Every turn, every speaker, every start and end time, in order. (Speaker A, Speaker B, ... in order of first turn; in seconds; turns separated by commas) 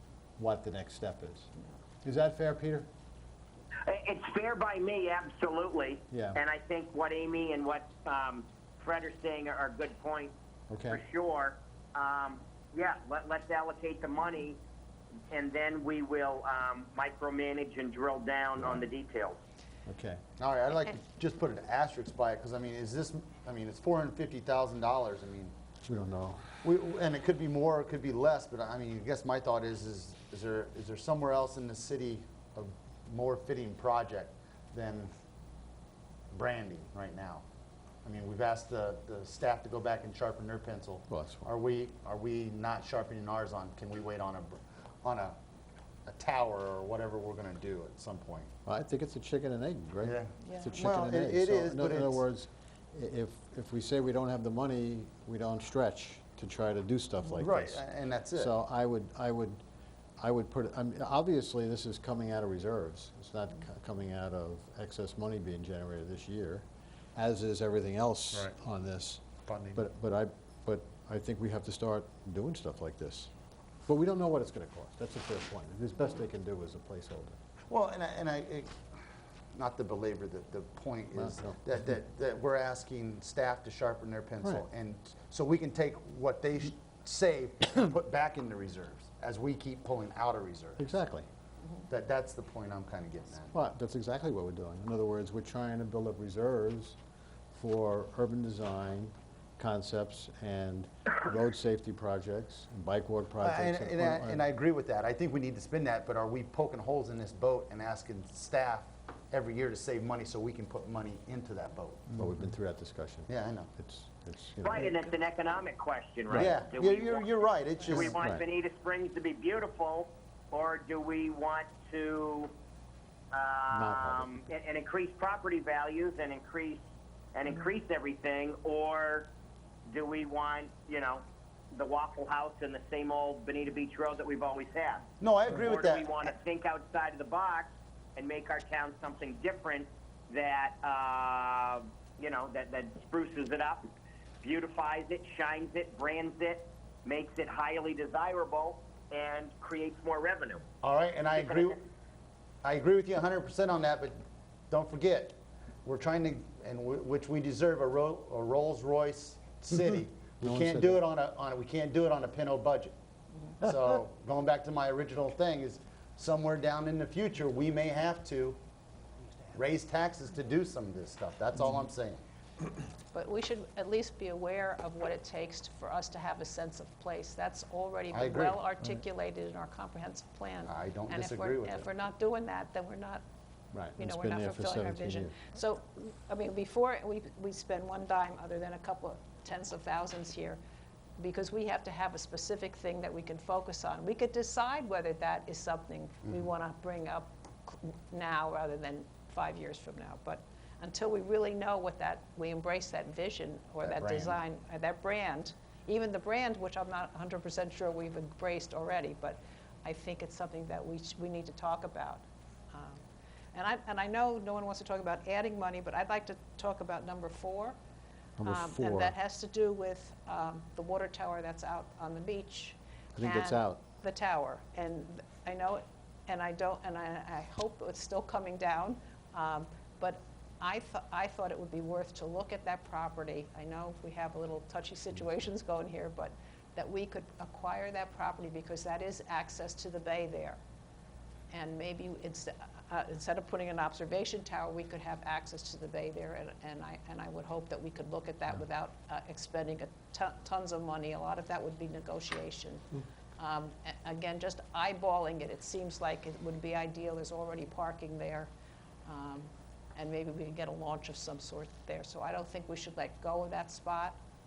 Speaker A: 0.4-1.5, Speaker A: 2.0-2.9, Speaker B: 3.8-10.3, Speaker A: 6.1-6.4, Speaker A: 10.7-11.0, Speaker B: 10.9-14.6, Speaker B: 15.3-19.4, Speaker A: 19.9-20.2, Speaker C: 20.4-25.5, Speaker A: 25.9-26.4, Speaker C: 26.6-35.1, Speaker C: 36.3-37.4, Speaker C: 38.0-45.4, Speaker A: 41.1-41.5, Speaker C: 46.0-48.5, Speaker A: 48.6-57.8, Speaker C: 50.0-52.2, Speaker D: 50.4-50.8, Speaker C: 57.4-58.5, Speaker A: 58.3-59.6, Speaker A: 60.2-69.2, Speaker C: 69.5-69.8, Speaker A: 69.7-73.3, Speaker A: 73.8-77.4, Speaker C: 77.7-78.8, Speaker C: 79.5-90.8, Speaker A: 81.1-81.6, Speaker A: 90.8-91.3, Speaker C: 91.9-93.5, Speaker A: 93.5-97.0, Speaker A: 97.5-104.4, Speaker C: 103.4-112.1, Speaker A: 112.1-114.9, Speaker C: 113.3-113.7, Speaker B: 114.6-117.3, Speaker C: 116.3-118.2, Speaker B: 117.8-122.5, Speaker A: 118.0-118.5, Speaker B: 123.3-126.8, Speaker A: 123.7-124.5, Speaker B: 127.3-129.3, Speaker B: 129.8-143.8, Speaker C: 135.2-136.3, Speaker B: 144.4-150.7, Speaker C: 150.8-151.8, Speaker B: 151.3-151.8, Speaker C: 152.6-162.9, Speaker A: 160.4-161.0, Speaker C: 163.6-168.6, Speaker C: 169.5-172.2, Speaker D: 173.1-183.2, Speaker C: 178.1-178.6, Speaker C: 180.7-181.9, Speaker A: 183.7-185.3, Speaker D: 184.0-190.6, Speaker D: 191.2-213.0, Speaker C: 203.8-204.4, Speaker D: 213.5-217.8, Speaker A: 218.4-219.2, Speaker D: 218.4-240.6, Speaker A: 223.1-223.8, Speaker D: 241.5-258.5, Speaker D: 259.1-264.2